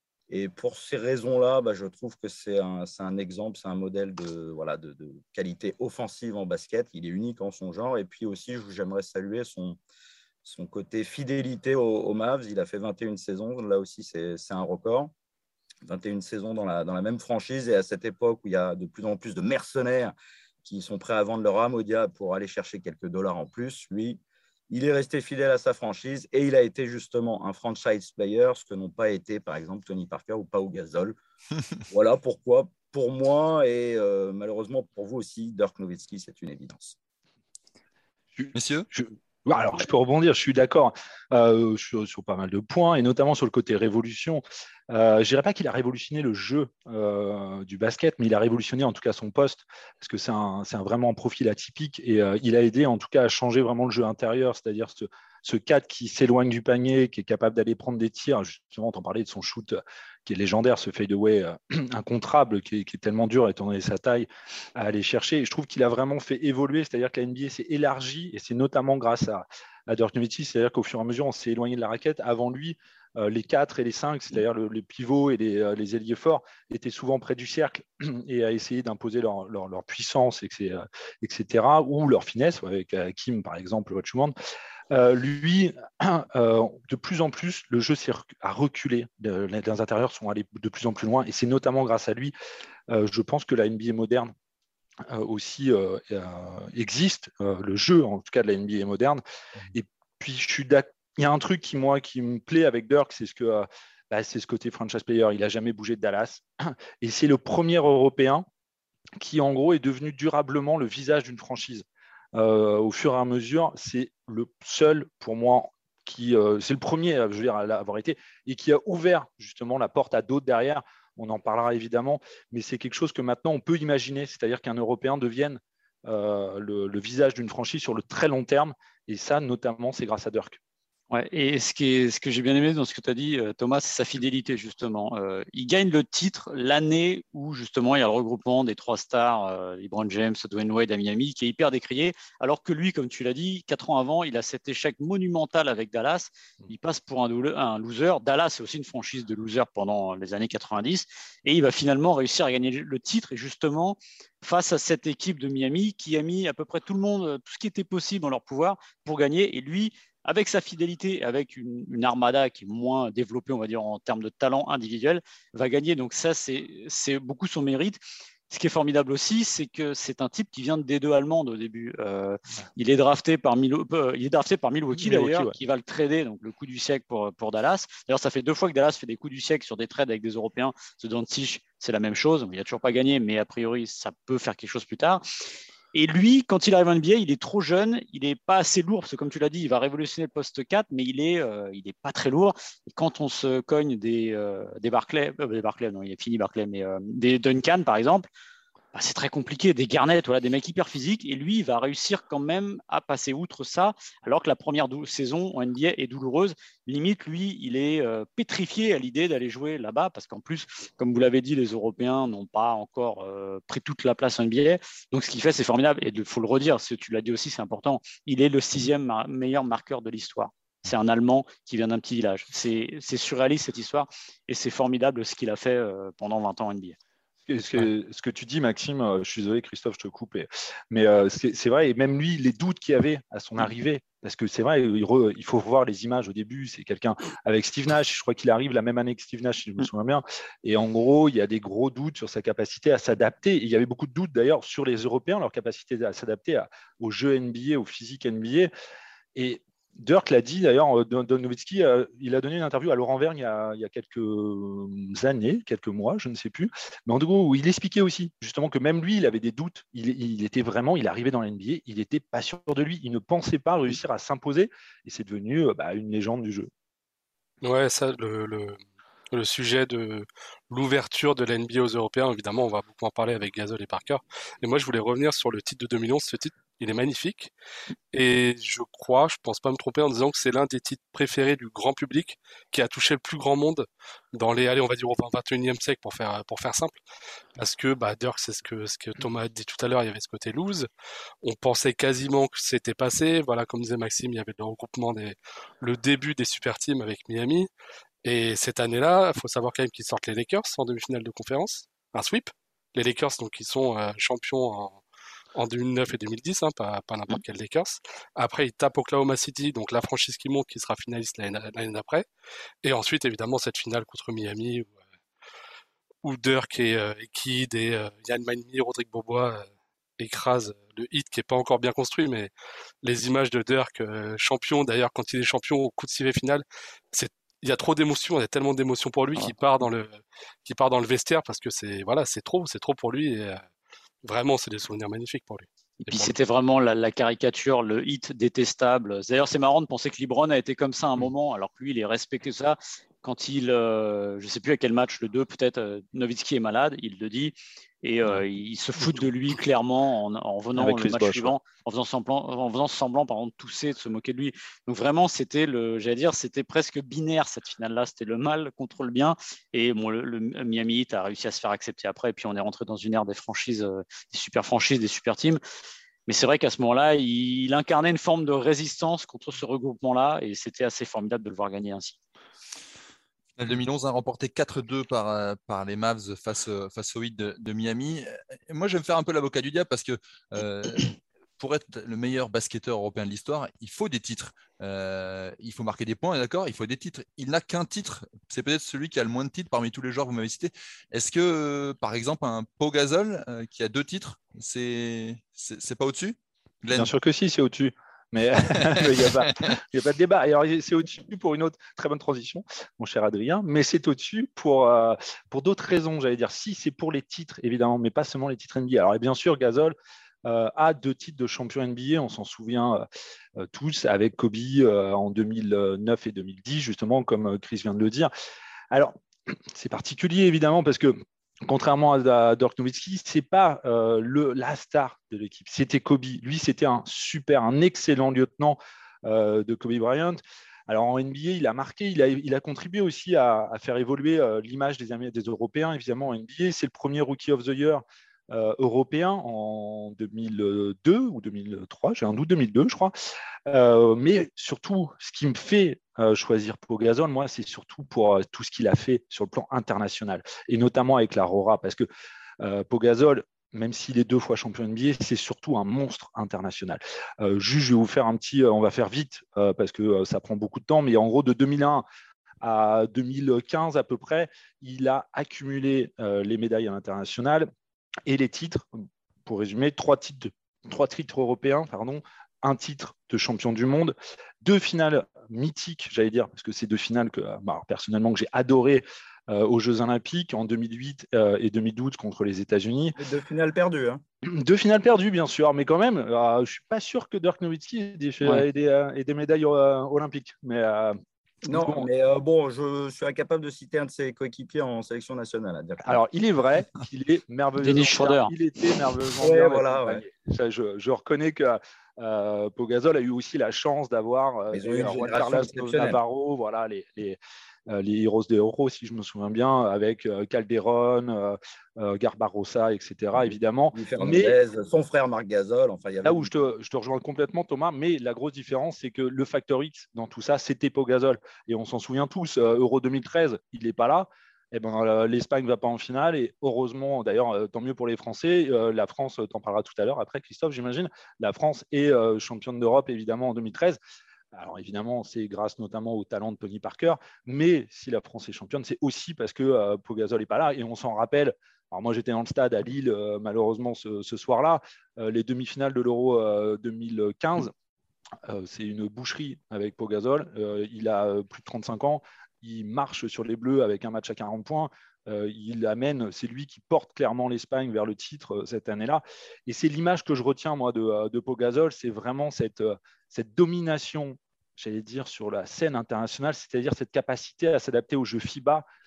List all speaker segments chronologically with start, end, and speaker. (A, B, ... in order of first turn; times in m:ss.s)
0:00.3-0:09.8 A
0:10.4-0:15.1 A
0:15.8-0:31.2 A
0:31.9-0:37.0 A
0:38.4-1:24.3 B
0:38.5-0:38.9 C
1:24.9-1:32.3 B
1:32.9-1:34.3 B
1:35.1-1:48.5 B
1:49.2-2:10.6 B
2:11.1-3:05.2 D
2:54.9-2:55.6 B
3:05.9-3:18.3 D
3:18.9-3:47.0 D
3:47.5-4:08.7 B
4:09.4-4:26.7 B
4:27.6-4:28.8 E
4:29.3-4:37.5 E
4:38.1-4:47.0 E
4:47.6-4:50.9 E
4:51.4-4:57.7 E
4:58.2-5:05.0 E
5:05.6-5:12.3 E
5:12.8-5:14.9 E
5:16.2-5:19.7 E
5:20.2-5:22.5 E
5:23.0-5:33.6 E
5:34.2-5:36.4 E
5:36.0-6:05.6 D
5:49.0-5:49.3 B
5:50.8-5:51.6 B
6:06.3-6:12.2 D
6:13.6-6:37.1 C
6:36.9-6:53.0 B
6:53.6-6:58.3 B
6:58.9-7:23.1 B
7:23.7-7:32.1 B
7:32.6-7:42.0 B
7:42.6-7:47.7 B
7:48.3-8:03.2 B
8:03.2-8:04.2 A
8:04.4-8:12.1 B
8:11.7-8:16.2 A
8:16.0-8:34.6 B
8:17.8-8:18.5 D
8:19.4-8:20.2 A
8:24.7-8:26.2 A
8:33.4-8:36.5 A
8:36.2-8:54.0 B
8:54.5-9:07.7 B
9:08.4-9:28.8 B